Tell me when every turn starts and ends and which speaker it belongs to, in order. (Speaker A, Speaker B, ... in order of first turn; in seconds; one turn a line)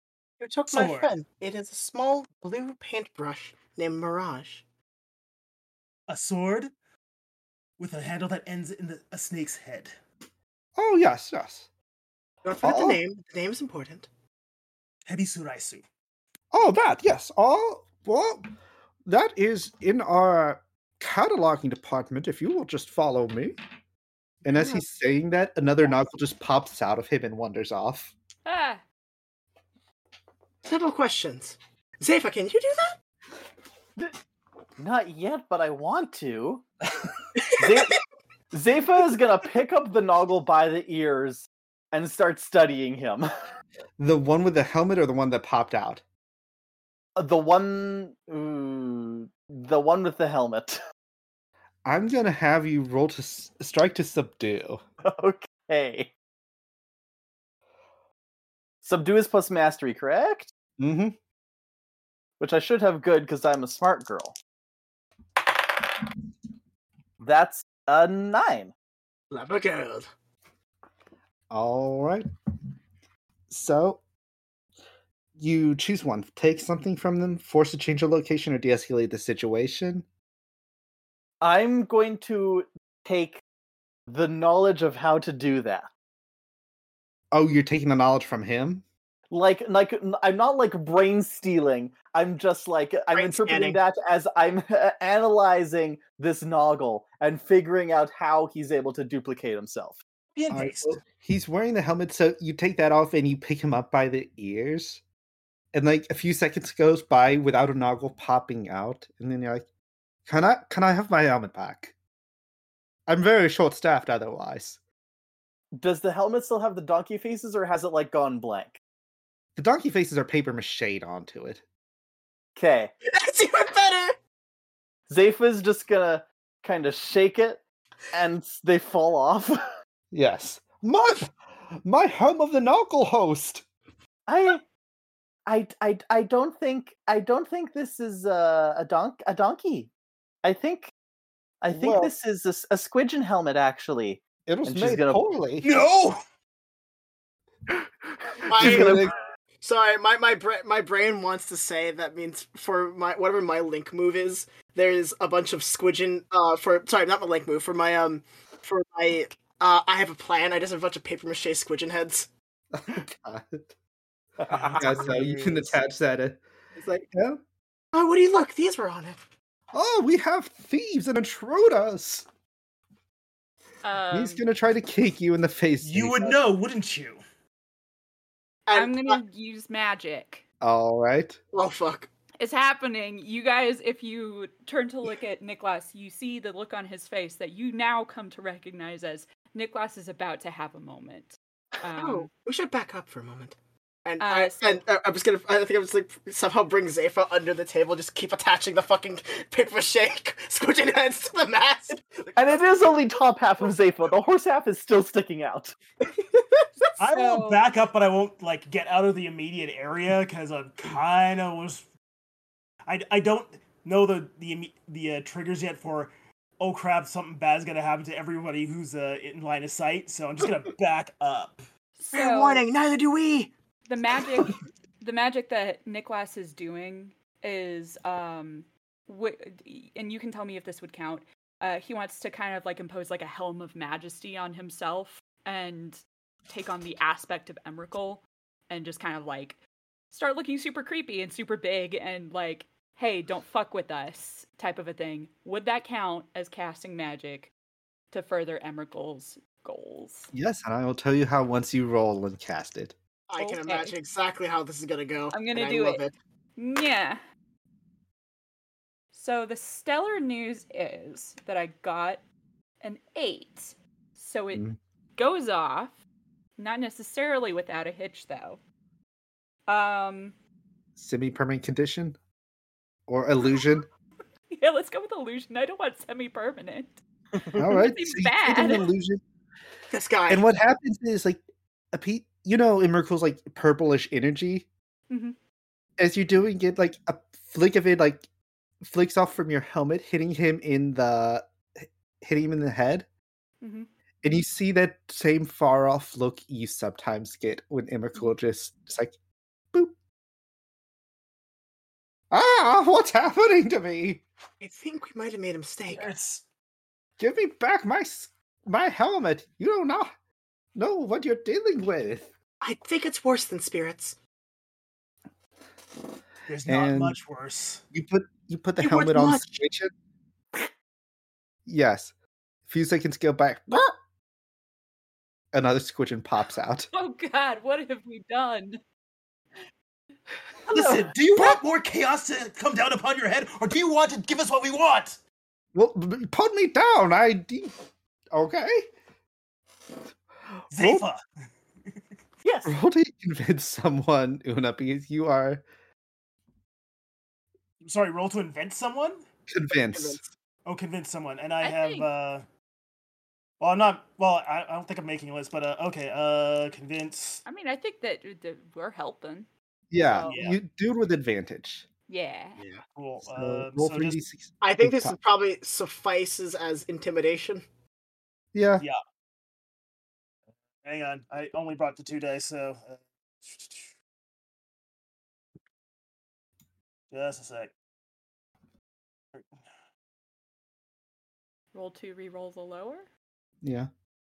Speaker A: 0.4-4.6
Speaker B: 0.7-1.1
Speaker B: 6.1-6.7
Speaker B: 7.8-9.9
Speaker C: 10.8-11.7
Speaker A: 12.4-14.1
Speaker C: 12.6-13.0
Speaker B: 15.1-15.8
Speaker C: 16.5-18.5
Speaker C: 19.0-23.5
Speaker C: 24.4-28.1
Speaker A: 24.5-24.8
Speaker D: 28.4-28.8
Speaker A: 30.6-33.0
Speaker E: 34.8-36.6
Speaker E: 37.4-38.0
Speaker E: 38.5-43.3
Speaker C: 44.0-46.0
Speaker E: 47.1-50.8
Speaker C: 51.8-54.8
Speaker E: 55.0-56.1
Speaker E: 58.8-60.5
Speaker C: 60.8-61.1
Speaker E: 62.4-64.3
Speaker E: 67.2-68.7
Speaker A: 69.3-70.1
Speaker C: 71.5-72.2
Speaker C: 73.5-74.0
Speaker C: 75.4-80.0
Speaker E: 81.4-83.4
Speaker E: 84.1-85.9
Speaker C: 87.3-88.8
Speaker E: 89.3-100.0
Speaker A: 93.1-93.8
Speaker B: 100.3-101.0
Speaker C: 100.5-105.0
Speaker C: 105.7-109.6
Speaker C: 110.2-111.9
Speaker C: 113.1-114.8
Speaker E: 115.7-118.8
Speaker C: 119.5-121.6
Speaker E: 122.5-122.9
Speaker A: 123.0-124.2
Speaker E: 125.1-129.6
Speaker C: 130.1-133.7
Speaker E: 134.3-134.6
Speaker E: 135.5-139.9
Speaker E: 140.4-140.9
Speaker E: 141.6-145.2
Speaker C: 141.7-142.1
Speaker C: 144.5-145.7
Speaker B: 145.6-146.2
Speaker A: 148.4-149.1
Speaker E: 148.6-148.9
Speaker C: 148.6-149.1
Speaker A: 149.6-162.3
Speaker C: 162.7-163.7
Speaker E: 164.5-164.8
Speaker B: 164.6-165.2
Speaker C: 164.7-166.4
Speaker A: 164.8-165.7
Speaker A: 166.8-167.1
Speaker C: 167.1-167.4
Speaker A: 167.9-169.2
Speaker C: 169.7-172.3
Speaker D: 173.8-174.4
Speaker C: 174.1-176.4
Speaker B: 175.8-177.2
Speaker A: 178.7-179.2
Speaker D: 178.7-180.4
Speaker C: 180.6-181.4
Speaker A: 181.5-182.1
Speaker D: 182.4-192.3
Speaker A: 192.0-202.6
Speaker D: 194.2-194.8
Speaker E: 202.3-205.8
Speaker A: 206.2-206.9
Speaker B: 207.0-211.9
Speaker D: 207.1-207.7
Speaker B: 212.9-221.7
Speaker D: 221.9-222.6
Speaker A: 222.1-223.5
Speaker D: 223.9-239.6
Speaker D: 240.1-247.5
Speaker D: 248.1-250.3
Speaker C: 250.3-252.9
Speaker A: 253.3-256.1
Speaker D: 253.4-253.9
Speaker D: 255.3-256.0
Speaker D: 256.6-257.2
Speaker D: 259.1-262.2
Speaker D: 262.8-264.6
Speaker D: 265.1-266.0
Speaker D: 266.6-268.6
Speaker D: 269.7-270.3
Speaker C: 270.9-272.2
Speaker C: 273.1-273.9
Speaker D: 274.5-277.0
Speaker C: 277.5-279.2
Speaker D: 277.6-278.9
Speaker A: 279.9-280.4
Speaker C: 280.3-284.7
Speaker D: 285.1-285.4
Speaker C: 286.0-288.2
Speaker C: 288.8-291.5
Speaker C: 292.2-293.1
Speaker D: 293.6-293.9
Speaker C: 294.2-299.1
Speaker C: 302.3-304.2
Speaker A: 304.6-306.1
Speaker B: 305.9-306.4
Speaker C: 307.2-310.1
Speaker C: 310.7-312.3
Speaker A: 312.6-314.2
Speaker B: 316.5-317.8
Speaker C: 316.7-317.2
Speaker C: 317.9-319.9
Speaker A: 318.8-319.4
Speaker C: 321.6-322.1
Speaker C: 322.6-323.9
Speaker C: 325.5-326.9
Speaker D: 326.9-328.8
Speaker B: 330.7-335.2
Speaker E: 330.7-331.1
Speaker C: 335.7-337.7
Speaker C: 338.3-338.9
Speaker B: 340.7-341.2
Speaker C: 340.7-341.0
Speaker E: 342.4-342.7
Speaker C: 342.6-345.6
Speaker B: 347.8-349.2
Speaker C: 349.5-350.2
Speaker A: 349.9-350.3
Speaker B: 350.6-352.4
Speaker D: 351.6-352.1
Speaker B: 353.6-357.4
Speaker D: 357.4-359.5
Speaker C: 359.9-361.8
Speaker B: 360.2-360.6
Speaker D: 362.1-362.6
Speaker A: 362.6-362.8
Speaker B: 362.9-364.2
Speaker C: 363.2-365.2
Speaker A: 364.6-367.6
Speaker C: 368.5-368.9
Speaker B: 370.8-373.9
Speaker B: 377.1-377.7
Speaker D: 381.7-383.1
Speaker C: 383.6-383.9